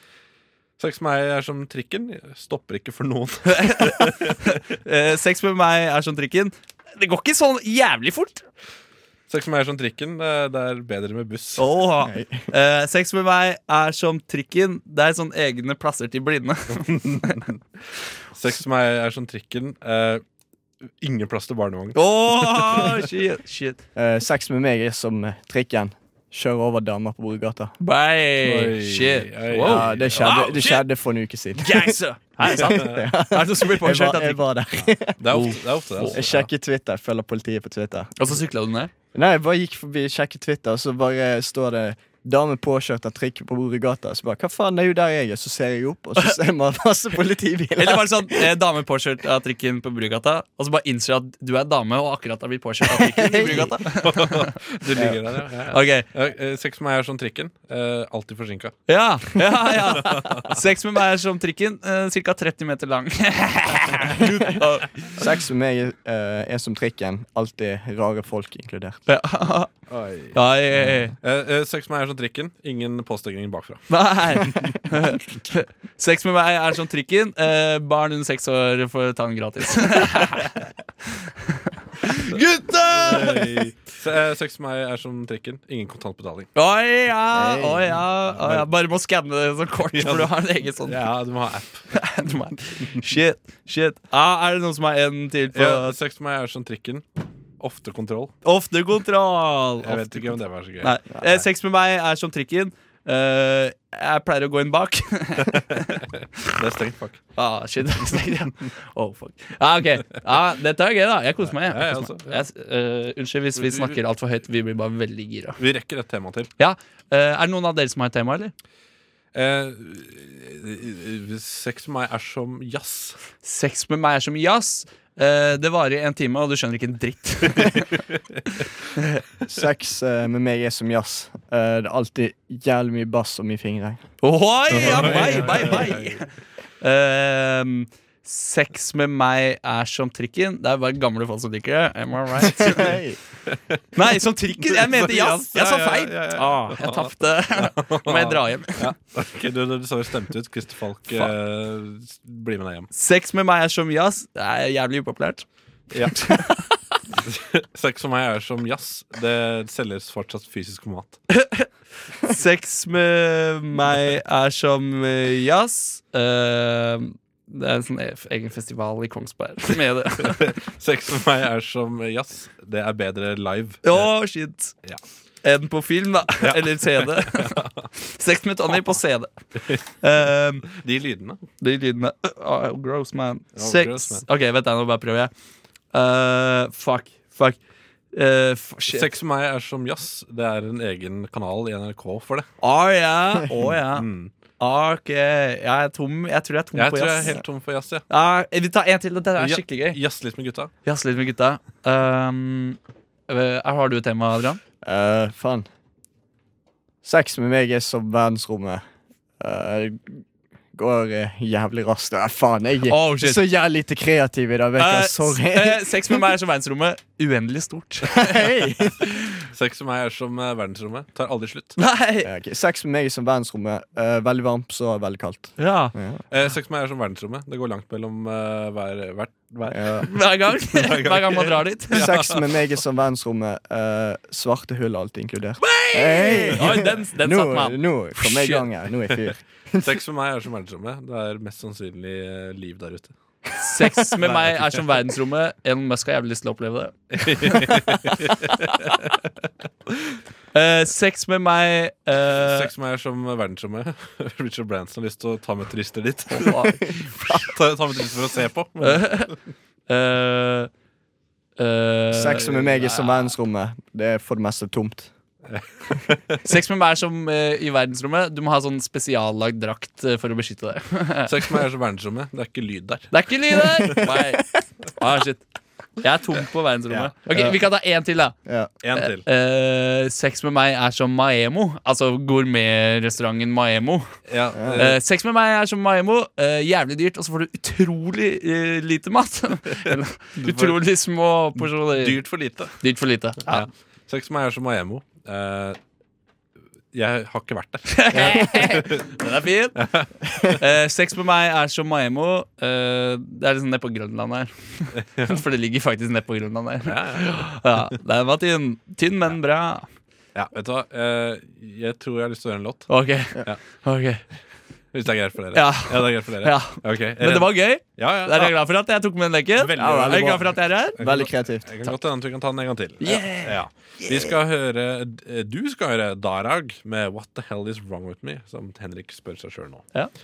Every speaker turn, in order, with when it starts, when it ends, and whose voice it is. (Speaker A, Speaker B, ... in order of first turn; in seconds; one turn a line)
Speaker A: 0.8-4.5
Speaker B: 3.5-8.4
Speaker A: 9.3-11.6
Speaker B: 11.6-17.5
Speaker C: 12.0-12.5
Speaker A: 16.7-17.6
Speaker A: 18.3-20.2
Speaker A: 21.0-23.0
Speaker B: 21.9-23.8
Speaker C: 23.9-27.8
Speaker B: 27.8-30.8
Speaker A: 28.4-30.3
Speaker C: 29.6-35.5
Speaker B: 31.6-34.4
Speaker A: 32.6-32.9
Speaker A: 35.2-36.5
Speaker B: 35.3-36.2
Speaker C: 36.1-38.1
Speaker B: 38.2-38.9
Speaker C: 39.1-48.5
Speaker B: 47.8-54.6
Speaker C: 52.8-53.8
Speaker A: 53.9-58.8
Speaker B: 55.7-56.1
Speaker B: 58.9-65.2
Speaker A: 60.0-60.6
Speaker C: 65.2-69.0
Speaker B: 69.1-69.7
Speaker A: 69.9-70.4
Speaker B: 70.3-71.1
Speaker A: 71.2-74.8
Speaker B: 73.9-83.7
Speaker A: 82.9-86.5
Speaker B: 86.5-91.0
Speaker C: 87.3-88.0
Speaker A: 88.3-88.7
Speaker A: 89.9-91.9
Speaker B: 91.9-96.0
Speaker A: 95.5-97.0
Speaker A: 97.6-98.3
Speaker B: 98.4-106.0
Speaker A: 99.8-100.9
Speaker C: 101.1-101.4
Speaker A: 105.5-107.2
Speaker B: 107.4-115.6
Speaker A: 111.5-112.4
Speaker A: 113.5-114.0
Speaker A: 115.6-116.5
Speaker B: 116.6-118.5
Speaker A: 119.3-123.2
Speaker B: 123.4-127.8
Speaker A: 127.5-127.8
Speaker C: 129.4-134.0
Speaker B: 134.2-136.3
Speaker A: 134.7-136.2
Speaker C: 134.9-135.7
Speaker B: 136.8-143.0
Speaker C: 142.4-143.2
Speaker A: 143.5-143.8
Speaker B: 143.9-148.9
Speaker A: 144.6-152.9
Speaker B: 152.9-155.4
Speaker A: 155.9-156.5
Speaker B: 156.1-156.6
Speaker A: 157.1-161.2
Speaker B: 161.3-161.7
Speaker B: 162.2-170.5
Speaker A: 170.2-174.1
Speaker B: 173.8-174.7
Speaker B: 175.4-180.7
Speaker A: 176.4-177.9
Speaker A: 180.7-181.4
Speaker B: 181.6-185.3
Speaker A: 183.6-184.2
Speaker B: 185.9-187.6
Speaker B: 188.1-189.1
Speaker A: 188.9-192.5
Speaker B: 192.6-194.1
Speaker A: 193.9-194.3
Speaker B: 194.6-197.4
Speaker A: 196.7-198.0
Speaker B: 198.1-200.0
Speaker A: 199.4-200.7
Speaker B: 200.8-202.8
Speaker B: 203.3-204.6
Speaker C: 204.8-205.7
Speaker C: 207.0-208.8
Speaker C: 209.4-216.2
Speaker B: 212.9-213.4
Speaker B: 214.8-218.3
Speaker C: 218.1-219.0
Speaker A: 219.5-221.8
Speaker B: 221.8-222.3
Speaker C: 222.2-226.2
Speaker B: 225.6-225.9
Speaker A: 226.3-230.2
Speaker C: 229.7-230.1
Speaker B: 230.1-232.2
Speaker A: 230.7-232.5
Speaker C: 231.9-240.0
Speaker B: 235.6-238.7
Speaker A: 239.8-243.1
Speaker B: 243.6-248.7
Speaker A: 244.2-244.8
Speaker A: 247.1-249.3
Speaker B: 250.5-252.7
Speaker A: 252.3-259.3
Speaker B: 256.3-257.4
Speaker B: 258.8-259.3
Speaker B: 259.9-260.7
Speaker B: 261.6-263.3
Speaker C: 262.1-265.1
Speaker A: 265.5-266.4
Speaker B: 266.4-271.6
Speaker A: 271.3-274.0
Speaker B: 273.1-275.4
Speaker B: 276.0-278.3
Speaker C: 278.4-278.7
Speaker A: 278.8-279.2
Speaker B: 278.9-284.1
Speaker A: 284.3-285.0
Speaker C: 284.5-284.8
Speaker B: 284.8-292.2
Speaker A: 290.4-290.8
Speaker A: 291.6-292.8
Speaker B: 292.8-293.7
Speaker A: 293.4-295.8
Speaker A: 296.9-299.1
Speaker B: 297.9-299.9
Speaker A: 299.8-300.1
Speaker B: 300.4-309.9
Speaker A: 304.9-305.4
Speaker A: 306.8-307.5
Speaker A: 310.3-312.9
Speaker B: 312.9-314.2
Speaker A: 314.9-318.5
Speaker B: 315.5-321.0
Speaker A: 319.6-329.9
Speaker C: 319.7-321.6
Speaker B: 323.0-324.3